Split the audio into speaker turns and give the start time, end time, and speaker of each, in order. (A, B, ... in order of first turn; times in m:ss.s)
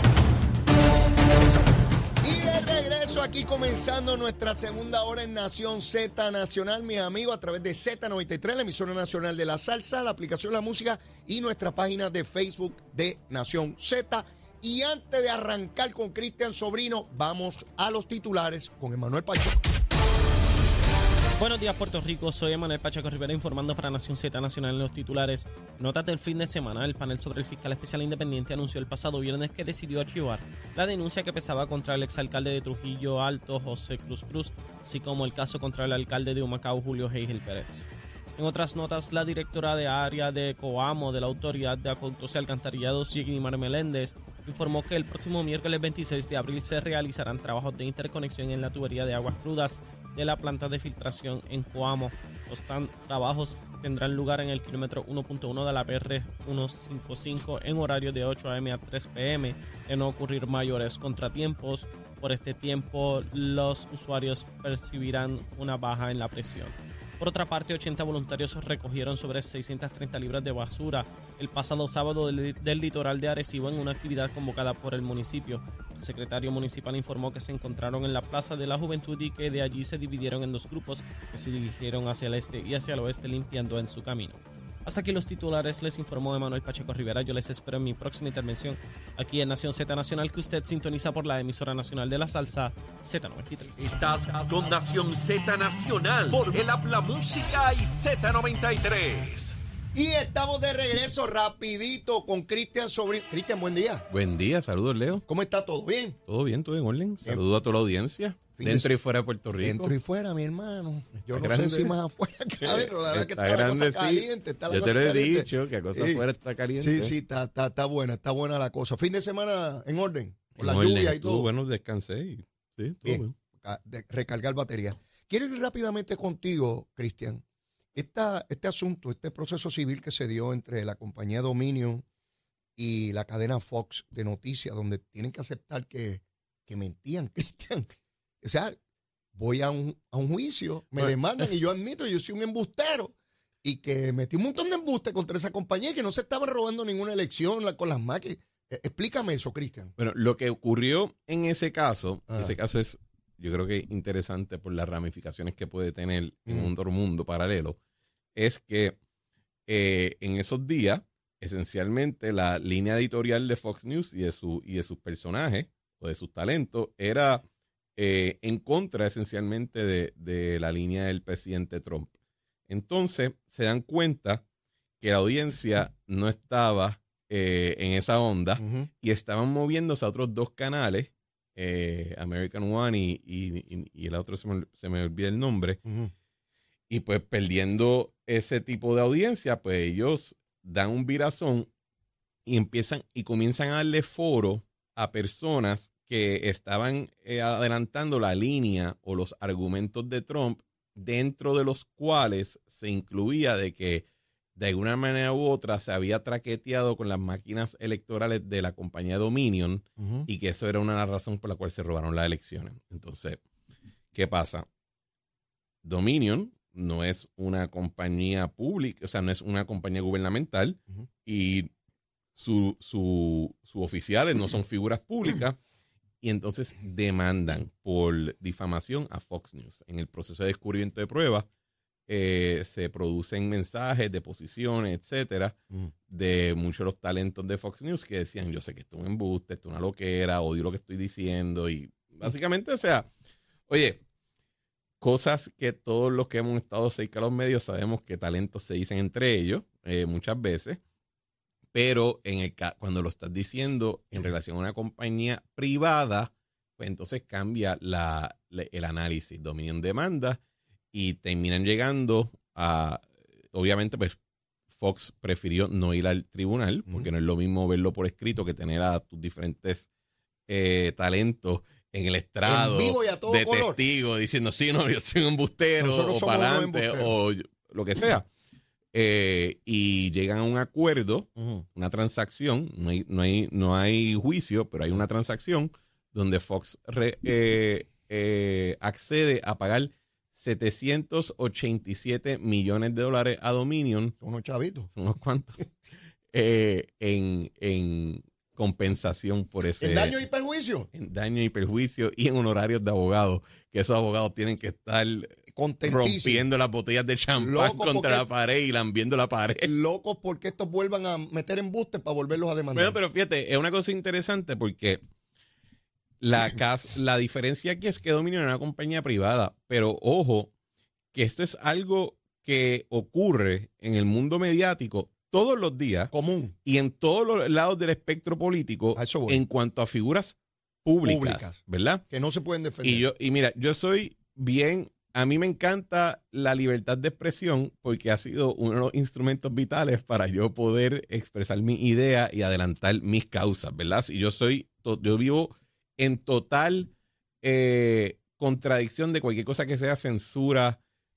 0:02.2-0:19.6 A
0:21.4-1:33.8 B
1:33.8-1:39.6 C
1:39.9-1:44.0 A
1:44.1-1:45.2 D
1:45.3-1:46.2 A
1:46.3-1:49.9 D
1:48.6-1:48.9 A
1:49.6-1:56.2 A
1:51.3-1:51.9 D
1:52.6-1:57.1 D
1:56.8-2:01.5 A
2:00.6-2:03.3 D
2:03.0-2:07.4 A
2:07.9-2:12.0 A
2:12.8-2:17.9 A
2:18.4-2:18.8 A
2:19.3-2:29.9 A
2:30.0-2:37.8 D
2:38.4-2:39.0 D
2:39.7-2:47.4 D
2:48.0-2:52.1 D
2:52.7-2:54.4 D
2:55.0-3:05.8 D
2:58.6-2:58.9 A
3:06.9-3:11.7 D
3:12.4-3:24.0 D
3:24.6-3:33.4 D
3:30.0-3:30.3 A
3:34.1-3:34.7 D
3:35.8-3:41.7 D
3:42.4-3:45.6 D
3:46.2-3:51.5 D
3:52.1-3:55.6 D
3:56.1-4:03.1 D
4:03.7-4:04.0 D
4:05.0-4:10.8 D
4:11.7-4:20.4 D
4:20.9-4:24.2 D
4:24.7-4:29.9 D
4:30.5-4:38.3 D
4:32.4-4:33.8 A
4:35.8-4:37.1 A
4:38.9-4:54.2 D
4:41.4-4:41.6 A
4:54.2-4:54.9 A
4:55.0-4:55.6 D
4:56.3-5:00.2 D
4:59.8-5:00.9 A
5:00.9-5:09.7 D
5:05.5-5:06.4 A
5:07.4-5:08.2 A
5:09.6-5:13.0 A
5:12.7-5:15.0 D
5:16.2-5:20.5 D
5:21.1-5:26.1 D
5:26.1-5:26.6 A
5:26.6-5:32.0 D
5:28.9-5:29.4 A
5:31.0-5:33.1 A
5:32.8-5:46.9 D
5:47.4-5:50.8 D